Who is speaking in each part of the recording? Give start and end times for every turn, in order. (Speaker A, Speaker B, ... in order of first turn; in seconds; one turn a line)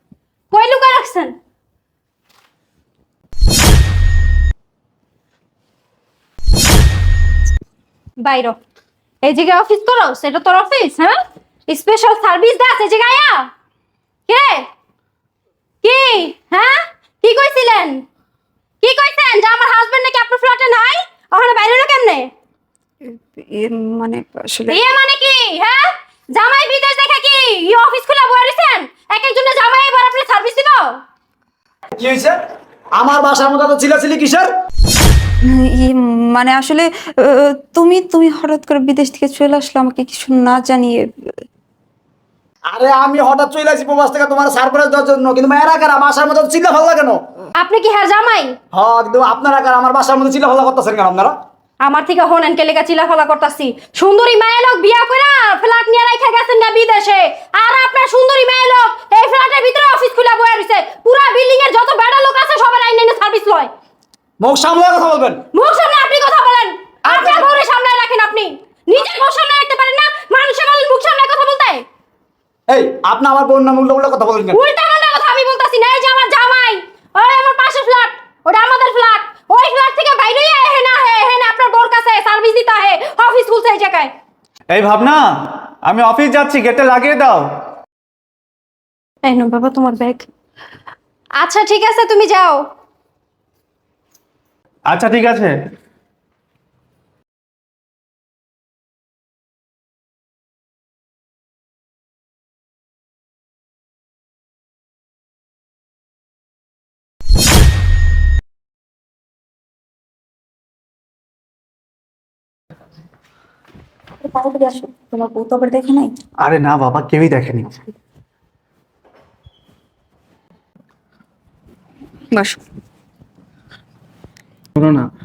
Speaker A: 0.5-1.3
Speaker A: 8.2-8.6
Speaker A: 9.2-11.2
Speaker A: 11.7-13.5
Speaker A: 14.3-14.7
Speaker A: 15.8-18.0
Speaker A: 18.8-22.3
Speaker B: 23.1-24.8
Speaker A: 24.7-31.0
Speaker C: 31.9-32.4
Speaker C: 33.0-34.5
Speaker B: 35.5-41.3
Speaker C: 42.7-47.2
Speaker A: 47.6-48.5
Speaker C: 48.7-51.3
Speaker A: 51.8-63.7
Speaker C: 64.4-65.4
Speaker A: 65.5-71.8
Speaker C: 67.1-67.5
Speaker C: 72.7-74.6
Speaker A: 74.5-84.1
Speaker D: 84.7-87.5
Speaker A: 89.2-90.3
Speaker A: 91.4-92.6
Speaker D: 94.9-95.5
Speaker B: 114.2-116.1
Speaker D: 116.4-117.8
Speaker B: 122.3-122.6
Speaker D: 124.8-125.0